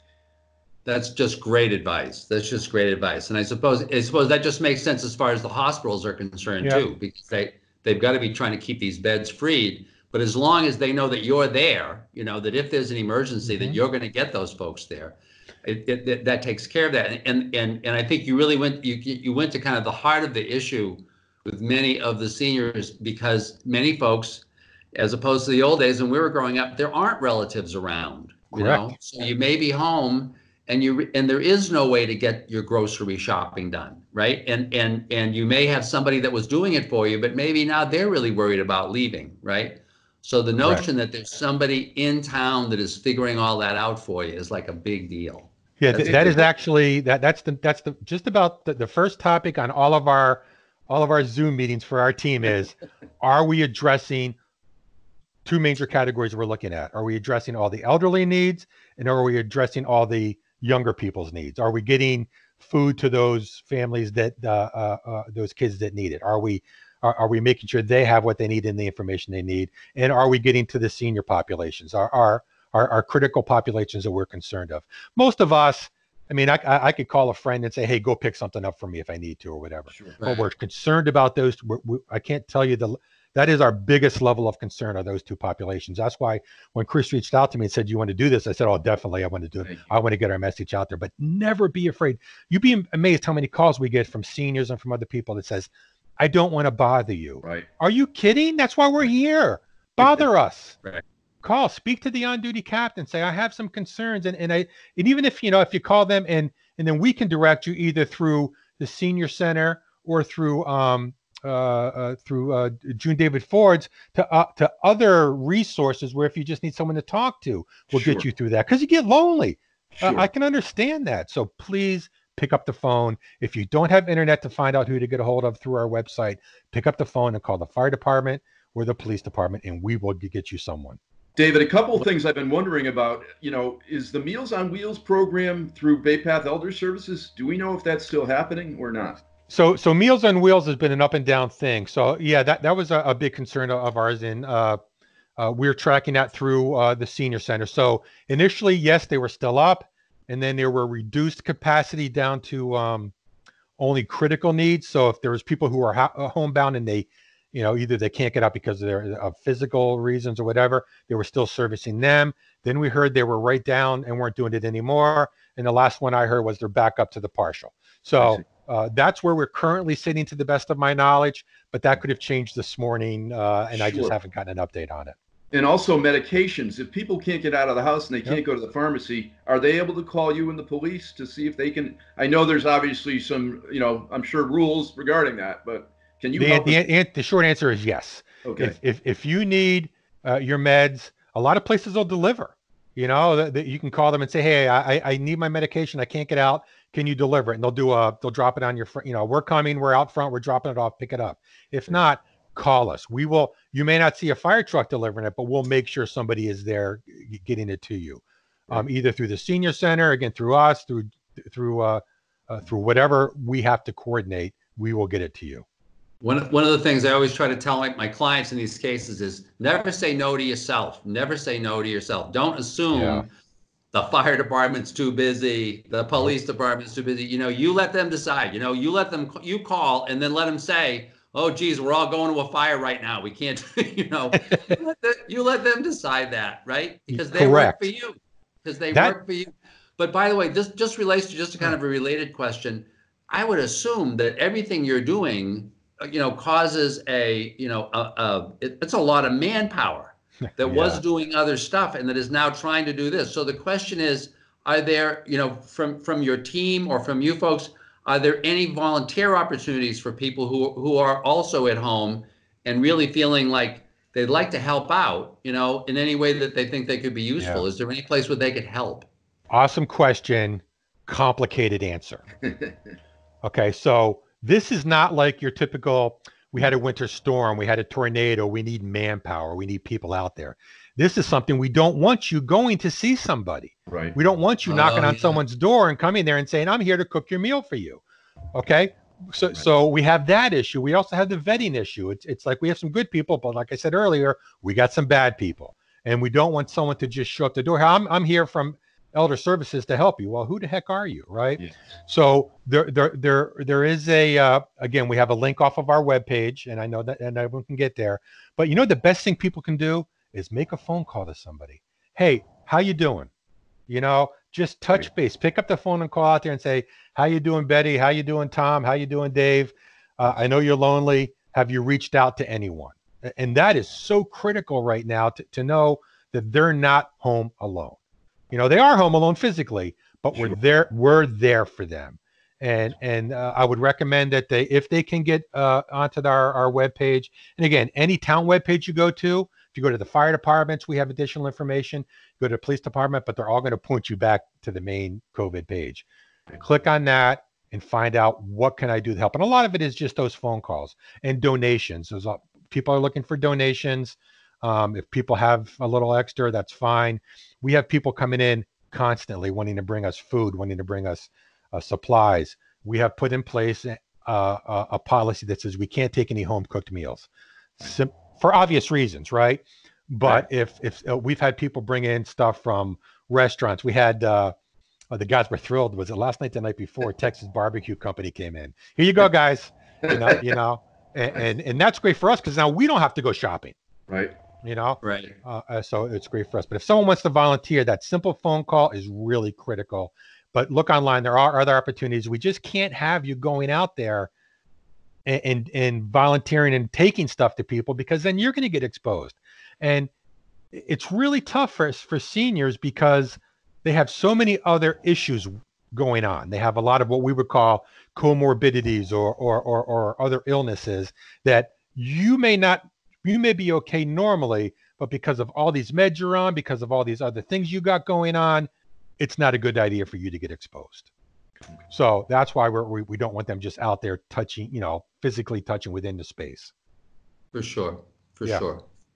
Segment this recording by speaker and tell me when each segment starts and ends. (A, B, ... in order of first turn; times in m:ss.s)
0:00.8-0:46.4 A
0:13.4-0:13.8 B
0:28.5-0:28.9 B
0:45.8-0:54.4 B
0:46.0-0:46.4 C
0:55.4-1:40.8 B
1:19.9-1:20.2 C
1:20.2-1:20.5 A
1:41.4-2:11.0 B
1:57.9-1:58.2 C
1:59.9-2:00.2 C
2:11.4-2:19.2 C
2:19.5-2:24.8 B
2:25.4-2:33.1 B
2:33.8-2:55.2 B
2:53.7-2:54.1 C
2:55.5-3:06.8 C
3:06.4-3:35.6 B
3:08.4-3:08.7 C
3:36.2-3:43.3 A
3:42.9-3:43.2 B
3:43.9-4:29.1 A
3:57.1-3:57.9 B
4:10.6-4:11.0 B
4:27.4-4:27.6 B
4:29.5-4:32.2 B
4:33.4-4:48.0 B
4:43.9-4:44.2 C
4:44.6-4:45.4 A
4:48.5-5:13.3 B
5:13.9-5:28.0 B
5:28.5-5:46.0 B
5:46.6-6:14.5 B
6:15.1-6:23.8 B
6:20.0-6:20.4 C
6:24.1-6:24.3 C
6:24.6-6:34.3 B
6:25.0-6:25.3 A
6:35.2-6:40.1 B
6:40.7-7:01.1 B
7:01.9-7:06.7 B
7:07.5-7:08.8 A